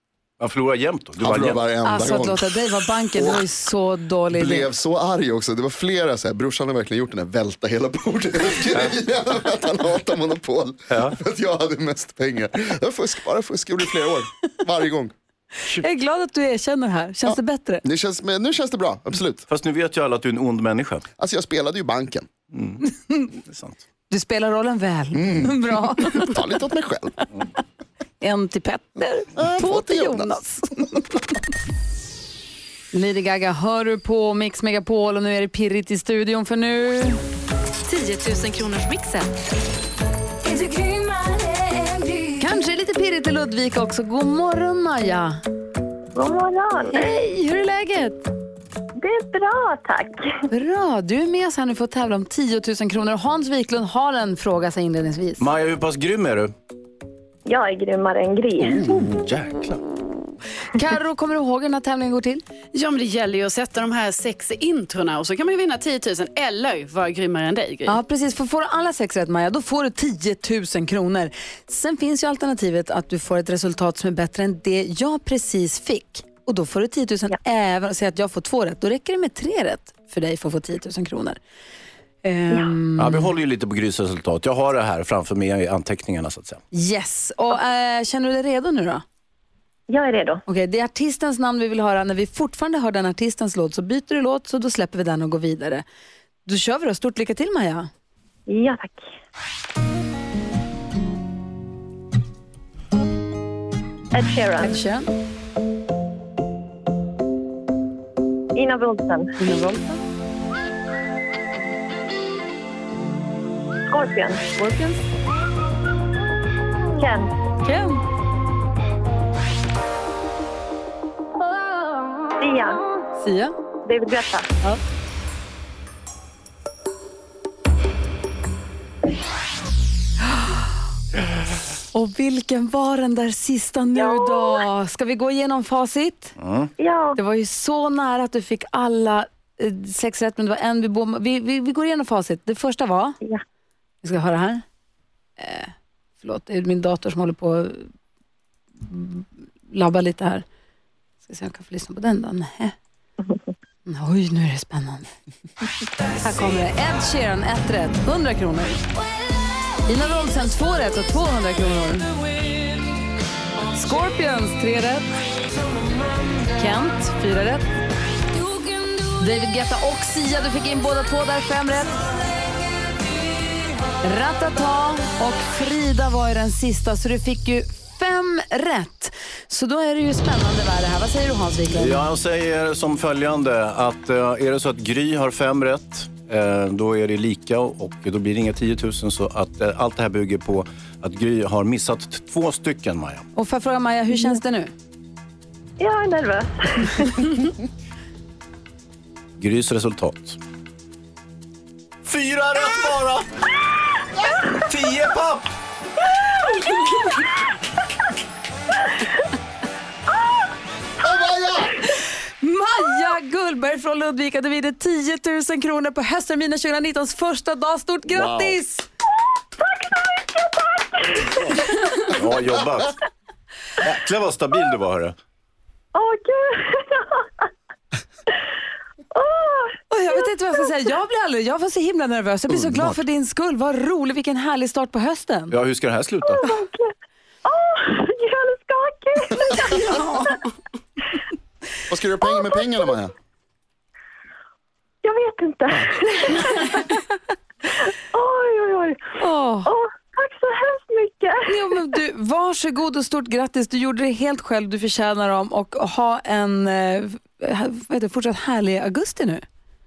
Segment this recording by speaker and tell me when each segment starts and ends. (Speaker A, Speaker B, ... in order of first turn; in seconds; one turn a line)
Speaker A: 0.4-1.6
Speaker B: 1.2-2.5
Speaker C: 1.9-4.7
Speaker B: 3.1-3.5
Speaker B: 4.3-15.1
Speaker A: 10.9-11.2
Speaker C: 15.7-17.8
Speaker B: 17.3-19.4
Speaker A: 19.5-21.1
Speaker B: 21.2-22.3
Speaker A: 22.5-23.8
Speaker C: 24.1-26.4
Speaker B: 25.1-27.2
Speaker C: 28.2-31.3
Speaker B: 29.4-30.4
Speaker C: 32.9-37.2
Speaker C: 40.6-41.6
Speaker C: 42.4-45.4
Speaker D: 46.1-47.1
Speaker C: 46.9-48.2
Speaker D: 49.0-50.4
Speaker C: 50.5-55.5
Speaker A: 55.4-56.5
Speaker D: 57.5-59.1
Speaker A: 58.6-59.8
Speaker C: 60.7-62.4
Speaker E: 62.7-68.0
Speaker C: 67.9-81.4
Speaker C: 82.2-83.3
Speaker A: 83.0-86.6
Speaker C: 86.7-89.0
Speaker D: 89.9-90.4
Speaker C: 90.5-95.8
Speaker C: 96.5-97.9
Speaker D: 98.5-99.1
Speaker D: 104.1-104.8
Speaker C: 104.6-105.1
Speaker D: 108.5-109.3
Speaker C: 109.4-110.0
Speaker D: 113.9-114.5
Speaker C: 114.6-115.0
Speaker D: 117.0-117.3
Speaker C: 117.6-118.0
Speaker D: 122.4-122.8
Speaker C: 123.2-123.5
Speaker D: 123.8-124.5
Speaker C: 131.9-136.3
Speaker D: 133.9-134.6
Speaker A: 136.4-136.7
Speaker D: 136.8-137.2
Speaker C: 137.2-143.2
Speaker C: 144.0-144.6
Speaker C: 145.4-147.9
Speaker C: 148.8-150.4
Speaker C: 151.2-152.8
Speaker D: 153.2-153.5
Speaker C: 153.9-155.1
Speaker C: 156.2-158.9
Speaker C: 159.9-162.1
Speaker C: 163.7-165.1
Speaker C: 166.5-167.7
Speaker C: 169.1-171.9
Speaker C: 174.0-182.0
Speaker A: 181.7-193.3
Speaker C: 193.3-194.7
Speaker D: 195.8-197.5
Speaker A: 199.4-200.4
Speaker A: 202.1-203.3
Speaker A: 204.3-205.5
Speaker C: 206.6-207.0
Speaker D: 210.1-210.5
Speaker B: 211.0-211.8
Speaker C: 212.4-218.9
Speaker B: 218.1-218.6
Speaker D: 219.6-222.1
Speaker A: 222.2-222.9
Speaker A: 223.8-225.2
Speaker D: 225.9-227.5
Speaker D: 229.1-230.2
Speaker C: 229.9-235.6
Speaker A: 235.5-236.5
Speaker D: 236.2-236.9
Speaker D: 237.4-240.4
Speaker C: 239.8-240.3
Speaker B: 241.9-243.1
Speaker D: 242.3-242.9
Speaker D: 245.0-247.0
Speaker D: 247.7-249.1
Speaker C: 249.2-249.7
Speaker D: 249.7-251.7
Speaker C: 251.5-259.4